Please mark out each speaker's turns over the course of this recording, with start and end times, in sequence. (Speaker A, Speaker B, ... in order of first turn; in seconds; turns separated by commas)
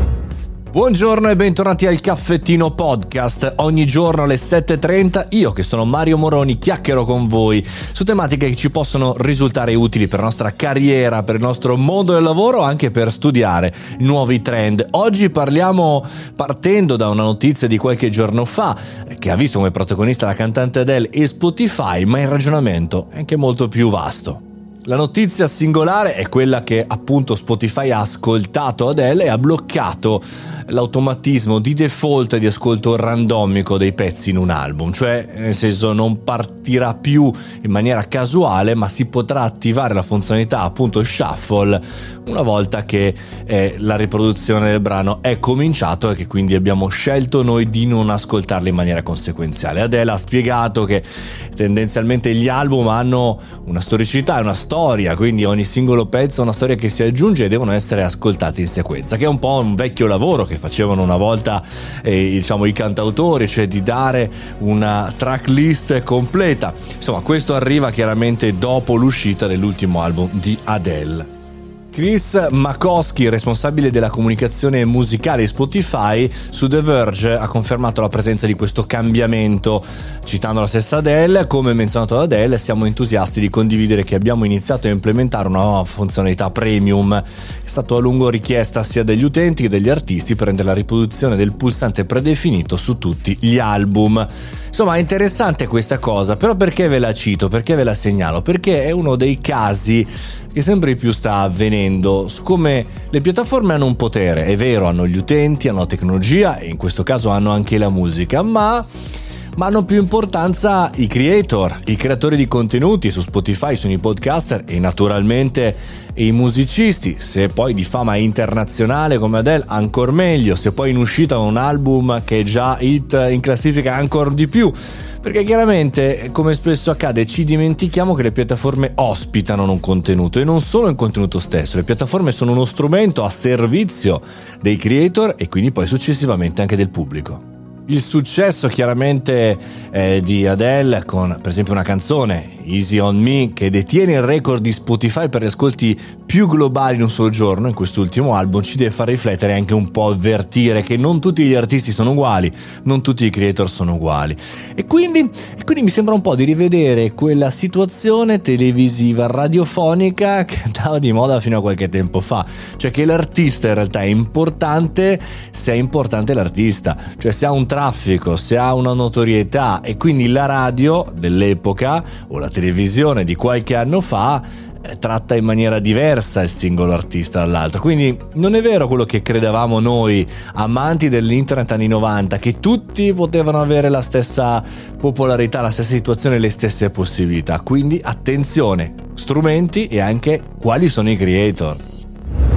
Speaker A: 0.7-71.3, Speaker A: 71.9-108.9, Speaker A: 109.5-191.8